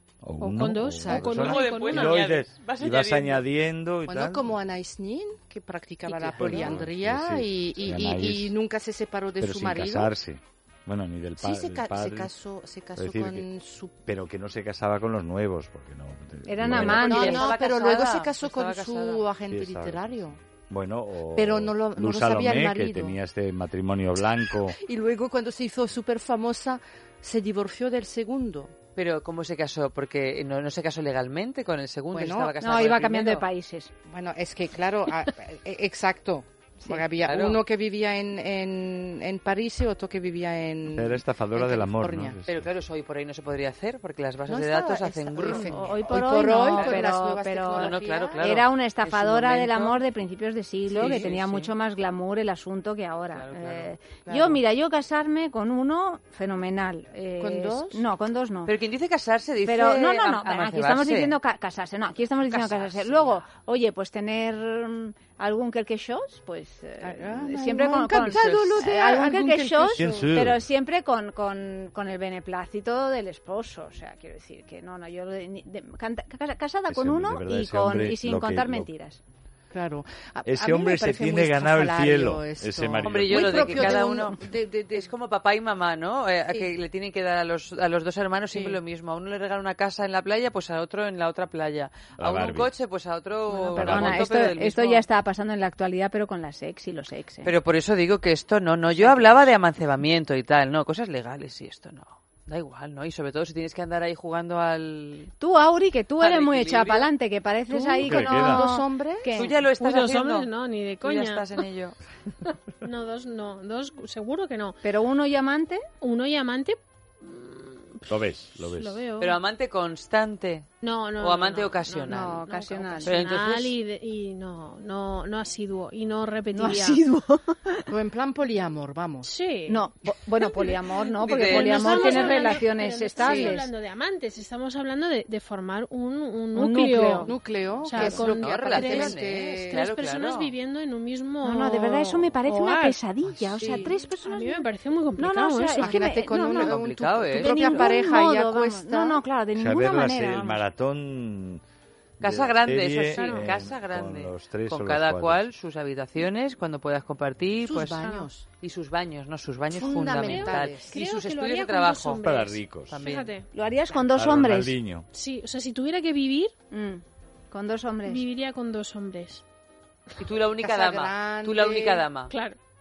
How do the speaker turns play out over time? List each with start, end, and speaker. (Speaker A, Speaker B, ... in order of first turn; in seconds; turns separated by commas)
Speaker A: 0.2-4.5, Speaker B: 0.4-2.2, Speaker C: 0.9-1.6, Speaker D: 1.3-3.4, Speaker C: 4.0-10.1, Speaker D: 6.0-6.8, Speaker A: 6.3-8.5, Speaker A: 9.4-12.3, Speaker C: 11.4-13.9, Speaker A: 12.9-13.5, Speaker A: 14.0-17.1, Speaker E: 16.4-17.5, Speaker D: 16.7-19.2, Speaker C: 16.7-20.4, Speaker A: 19.5-24.8, Speaker C: 21.4-23.1, Speaker C: 24.5-28.7, Speaker D: 28.9-33.5, Speaker C: 32.1-32.5, Speaker E: 32.6-33.9, Speaker C: 34.1-42.4, Speaker D: 37.2-37.6, Speaker A: 40.9-42.7, Speaker D: 42.5-46.1, Speaker C: 44.5-48.4, Speaker E: 45.4-58.7, Speaker D: 46.7-47.1, Speaker D: 47.7-50.0, Speaker D: 50.9-51.7, Speaker C: 50.9-51.2, Speaker D: 53.3-53.9, Speaker C: 54.2-54.6, Speaker C: 57.4-58.0, Speaker D: 58.6-61.4, Speaker E: 59.6-79.2, Speaker C: 67.0-70.3, Speaker D: 68.2-68.7, Speaker A: 69.9-70.6, Speaker A: 76.9-78.9, Speaker C: 79.7-85.1, Speaker A: 80.4-83.7, Speaker D: 83.0-95.0, Speaker E: 83.5-84.3, Speaker C: 88.5-88.8, Speaker A: 92.2-92.7, Speaker E: 93.5-97.5, Speaker A: 93.8-94.2, Speaker D: 97.4-105.3, Speaker C: 98.9-99.5, Speaker E: 105.4-109.5, Speaker D: 106.2-107.1, Speaker C: 107.7-109.4, Speaker A: 108.0-108.7, Speaker D: 109.4-110.5, Speaker B: 109.8-111.5, Speaker D: 111.0-112.0, Speaker B: 112.8-114.8, Speaker E: 114.8-115.8, Speaker B: 116.0-119.3, Speaker A: 118.1-119.0, Speaker D: 119.2-122.4, Speaker B: 120.8-127.0, Speaker E: 122.1-123.2, Speaker D: 123.0-123.7, Speaker E: 126.5-127.9, Speaker C: 127.9-129.3, Speaker B: 129.2-129.9, Speaker E: 129.7-133.7, Speaker B: 130.4-143.0, Speaker D: 131.2-132.6, Speaker C: 133.2-133.6, Speaker E: 136.5-137.3, Speaker C: 137.2-139.8, Speaker D: 137.9-140.5, Speaker E: 141.4-146.8, Speaker C: 143.3-143.9, Speaker B: 143.7-146.2, Speaker C: 145.8-149.2, Speaker D: 146.5-147.8, Speaker E: 147.3-150.6, Speaker A: 149.5-151.6, Speaker A: 152.2-155.5, Speaker D: 152.2-158.1, Speaker B: 153.1-153.6, Speaker C: 157.6-158.4, Speaker B: 158.0-158.3, Speaker D: 158.6-162.2, Speaker C: 159.7-160.9, Speaker B: 160.2-163.5, Speaker A: 162.2-163.1, Speaker D: 162.9-163.3, Speaker E: 163.5-164.7, Speaker A: 164.1-165.1, Speaker B: 165.1-166.5, Speaker E: 166.7-168.2, Speaker B: 168.1-169.4, Speaker D: 170.2-172.3, Speaker C: 170.6-172.0, Speaker B: 172.3-172.6